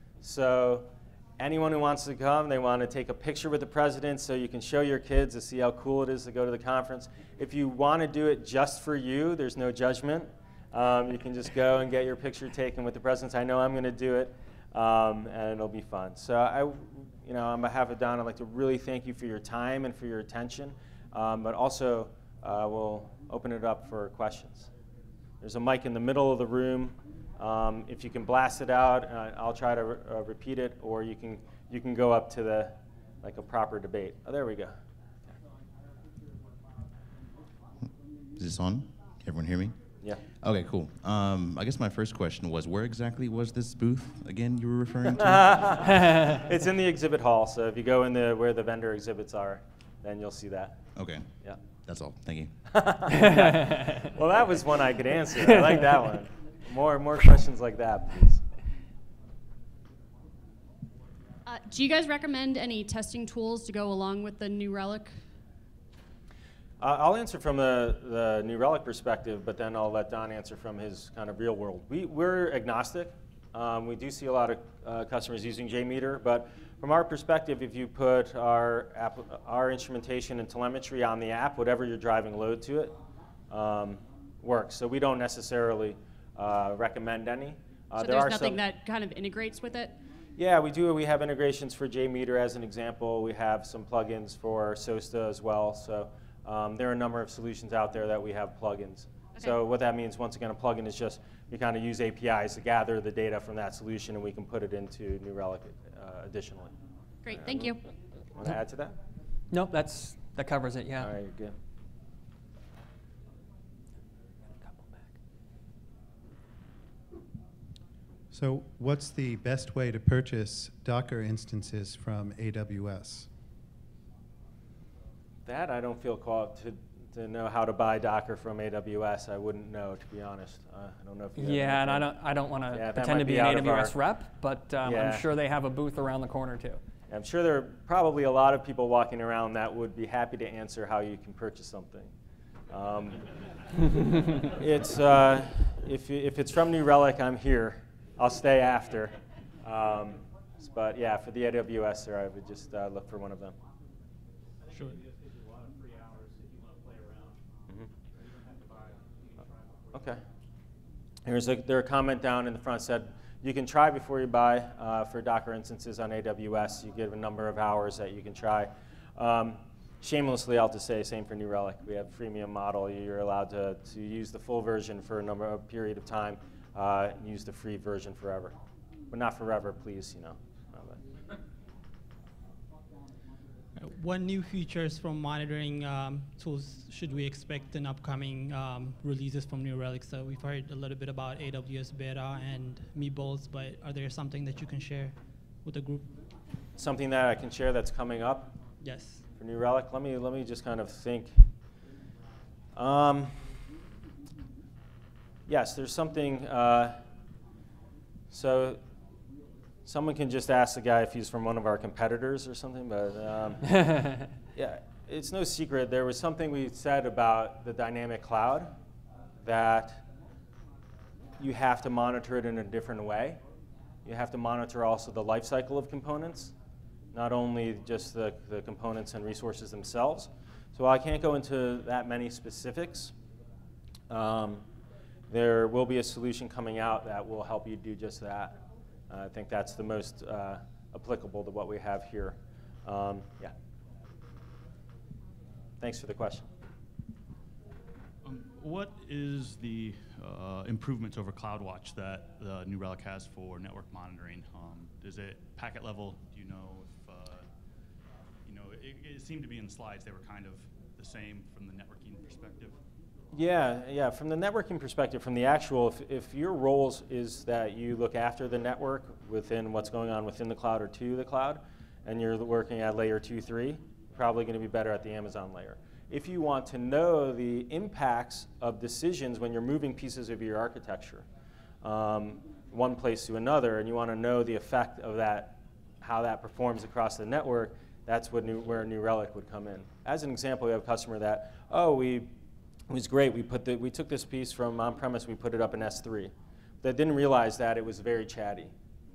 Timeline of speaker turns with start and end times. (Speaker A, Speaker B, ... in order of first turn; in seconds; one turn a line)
Speaker A: 0.2-24.7
Speaker A: 25.4-34.8
Speaker B: 37.8-39.8
Speaker B: 40.4-45.8
Speaker A: 45.2-50.8
Speaker B: 51.0-51.3
Speaker B: 51.8-52.7
Speaker A: 52.7-58.4
Speaker C: 53.2-53.9
Speaker D: 61.5-65.1
Speaker A: 66.8-83.0
Speaker A: 83.5-88.6
Speaker D: 88.0-90.0
Speaker A: 90.4-106.7
Speaker D: 107.2-107.8
Speaker A: 107.3-107.8
Speaker A: 108.3-109.0
Speaker C: 109.5-111.1
Speaker A: 111.0-111.6
Speaker C: 114.6-115.2
Speaker E: 118.3-123.3
Speaker A: 125.5-132.1
Speaker C: 131.4-136.8
Speaker A: 132.7-133.9
Speaker A: 134.8-135.3
Speaker A: 137.1-142.1
Speaker A: 142.7-143.3
Speaker A: 144.4-153.6
Speaker F: 154.7-155.0
Speaker A: 159.9-160.2
Speaker A: 161.2-178.6
Speaker A: 179.1-181.0
Speaker F: 183.8-196.2
Speaker A: 196.8-198.6
Speaker F: 198.8-199.2
Speaker A: 199.4-201.4
Speaker A: 202.8-203.5
Speaker A: 205.5-207.0
Speaker A: 208.3-208.8
Speaker A: 209.9-213.8
Speaker C: 213.8-214.2
Speaker A: 214.6-218.7
Speaker A: 219.4-220.1
Speaker A: 221.4-223.4
Speaker A: 224.1-226.5
Speaker A: 227.1-233.1
Speaker A: 234.1-234.7
Speaker A: 235.3-243.5
Speaker A: 245.8-246.5
Speaker G: 248.2-257.5
Speaker G: 258.4-262.8
Speaker A: 263.3-281.3
Speaker A: 281.8-292.3
Speaker A: 292.9-298.7